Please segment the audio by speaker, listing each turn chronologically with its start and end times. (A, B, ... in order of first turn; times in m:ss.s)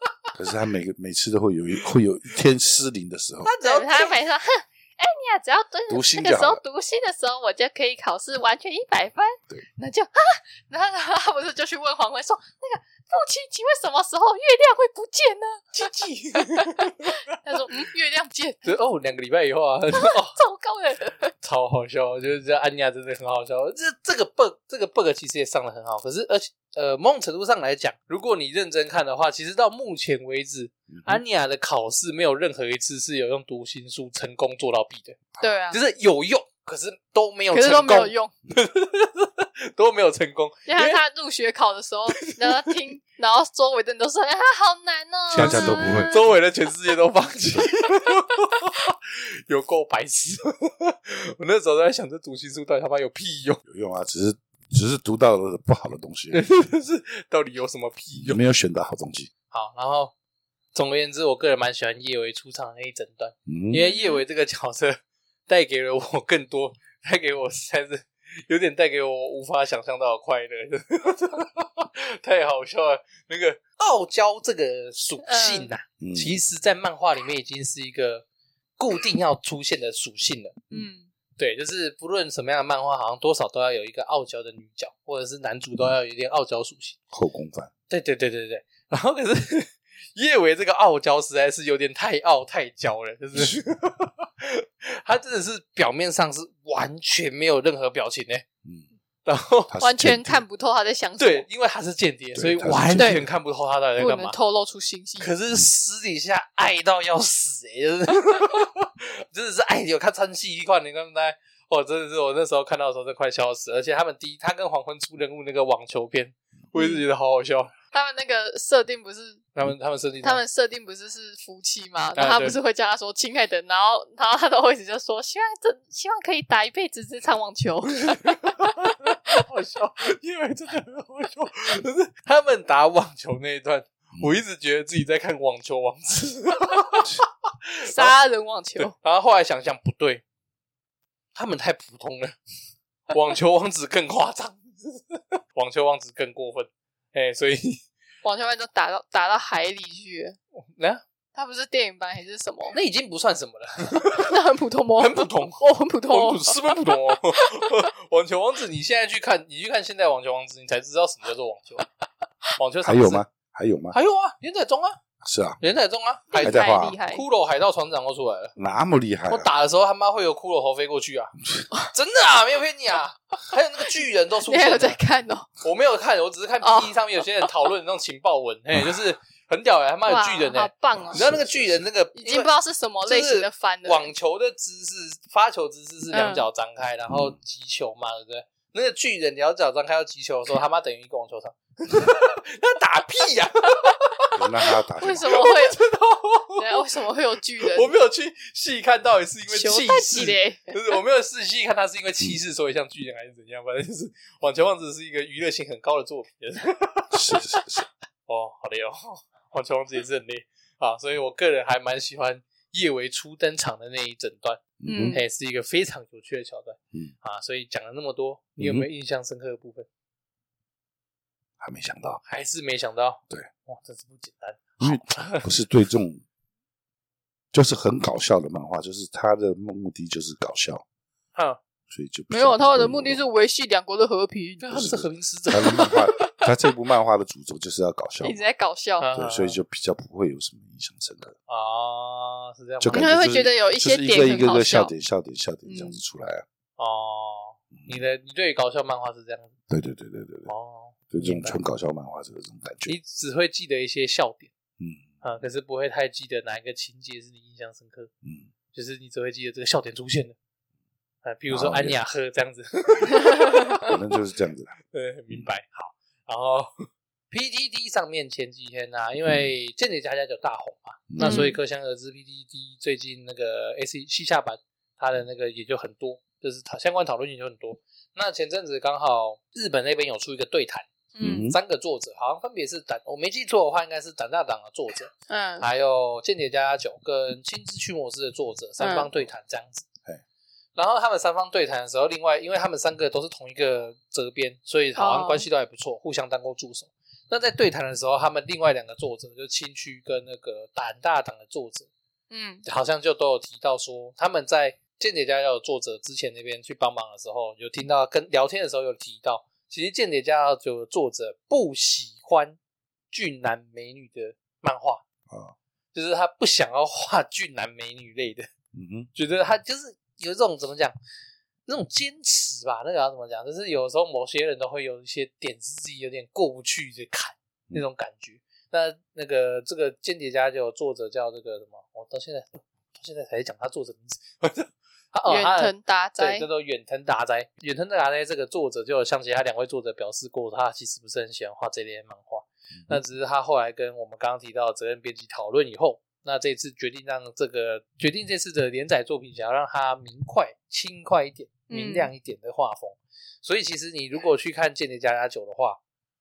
0:00.4-0:03.5 A
0:03.4-0:04.2 B
0:03.6-0:15.8 C
0:05.9-0:06.6 A
0:15.7-0:17.4 B
0:16.4-0:18.6 C
0:18.6-0:20.4 B
0:20.0-0:21.3 C
0:21.4-0:35.2 B
0:30.9-0:31.2 A
0:35.4-0:35.8 C
0:35.7-0:41.0 B
0:37.5-0:38.3 C
0:40.7-0:46.4 C
0:42.2-0:42.8 B
0:45.3-0:46.2 A
0:45.3-0:53.6 B
0:53.6-0:56.4 A
0:56.3-0:58.4 B
0:58.2-0:59.3 A
0:59.5-1:00.1 B
1:00.7-1:18.3 B
1:03.5-1:03.8 A
1:03.7-1:04.2 C
1:15.3-1:15.7 C
1:16.0-1:16.4 A
1:18.8-1:20.6 B
1:20.7-1:21.1 C
1:21.4-1:27.0 B
1:27.1-1:27.7 A
1:27.9-1:38.4 B
1:39.2-1:39.7 B
1:39.7-1:40.4 A
1:39.8-1:41.5 C
1:41.2-1:44.4 B
1:42.4-1:43.3 A
1:43.0-1:43.3 C
1:44.0-1:45.3 C
1:45.2-1:57.7 B
1:56.8-1:57.0 C
1:57.9-1:59.4 C
1:59.6-2:00.4 B
2:00.2-2:08.6 C
2:02.2-2:02.6 B
2:08.1-2:18.1 B
2:17.9-2:18.9 C
2:18.8-2:20.2 B
2:21.4-2:22.4 B
2:23.1-2:27.8 B
2:28.2-2:30.4 C
2:30.6-2:31.0 B
2:31.4-2:32.8 C
2:32.7-2:34.4 B
2:34.1-2:36.7 C
2:35.0-2:41.9 B
2:42.6-2:43.2 B
2:42.8-2:44.0 A
2:43.9-2:45.0 B
2:45.2-2:45.6 A
2:45.6-2:48.5 B
2:46.3-2:47.2 C
2:46.4-2:47.0 A
2:48.6-2:49.5 A
2:49.3-2:51.4 B
2:51.9-2:55.0 B
2:54.5-2:55.5 C
2:55.6-3:02.5 B
2:56.6-2:57.0 C
3:00.1-3:01.2 C
3:00.9-3:01.8 A
3:02.2-3:04.1 C
3:03.1-3:14.4 B
3:06.1-3:06.5 C
3:07.1-3:07.4 A
3:14.4-3:15.4 A
3:15.0-3:15.8 C
3:15.3-3:16.8 B
3:16.6-3:17.9 C
3:17.6-3:27.6 B
3:19.5-3:21.0 C
3:27.1-3:27.9 A
3:28.3-3:39.9 B
3:34.8-3:35.2 A
3:34.8-3:35.2 C
3:38.6-3:38.9 A
3:41.6-3:42.2 A
3:42.2-3:45.5 B
3:44.8-3:46.2 A
3:47.5-3:50.8 A
3:51.4-3:51.6 B
3:51.9-3:53.2 A
3:52.3-3:54.8 C
3:54.6-3:55.9 B
3:54.7-3:58.4 A
3:55.7-3:56.4 C
3:58.2-3:59.1 C
3:59.0-3:59.6 B
3:59.1-4:01.4 A
4:01.5-4:03.1 B
4:02.8-4:06.4 A
4:02.9-4:04.9 C
4:05.6-4:06.0 C
4:06.8-4:09.5 B
4:09.7-4:10.5 A
4:10.5-4:11.6 B
4:11.1-4:12.9 A
4:12.9-4:14.5 B
4:14.8-4:15.1 A
4:15.2-4:18.1 B
4:18.2-4:18.5 A
4:18.7-4:20.4 B
4:21.2-4:24.0 B
4:21.5-4:22.0 A
4:23.8-4:24.7 A
4:24.9-4:40.9 B
4:31.1-4:31.5 A
4:31.2-4:31.6 C
4:41.2-4:41.5 C
4:41.2-4:41.6 A
4:41.4-4:49.8 B
4:45.3-4:45.7 C
4:48.8-4:49.1 C
4:50.8-5:01.9 B
4:55.0-4:55.5 C
5:02.3-5:02.6 C
5:02.6-5:12.6 B
5:13.1-5:15.0 B
5:15.3-5:15.6 A
5:15.9-5:18.5 B
5:18.7-5:19.1 A
5:19.1-5:21.0 B
5:21.7-5:55.8 B
5:35.3-5:36.5 C
5:51.7-5:52.1 C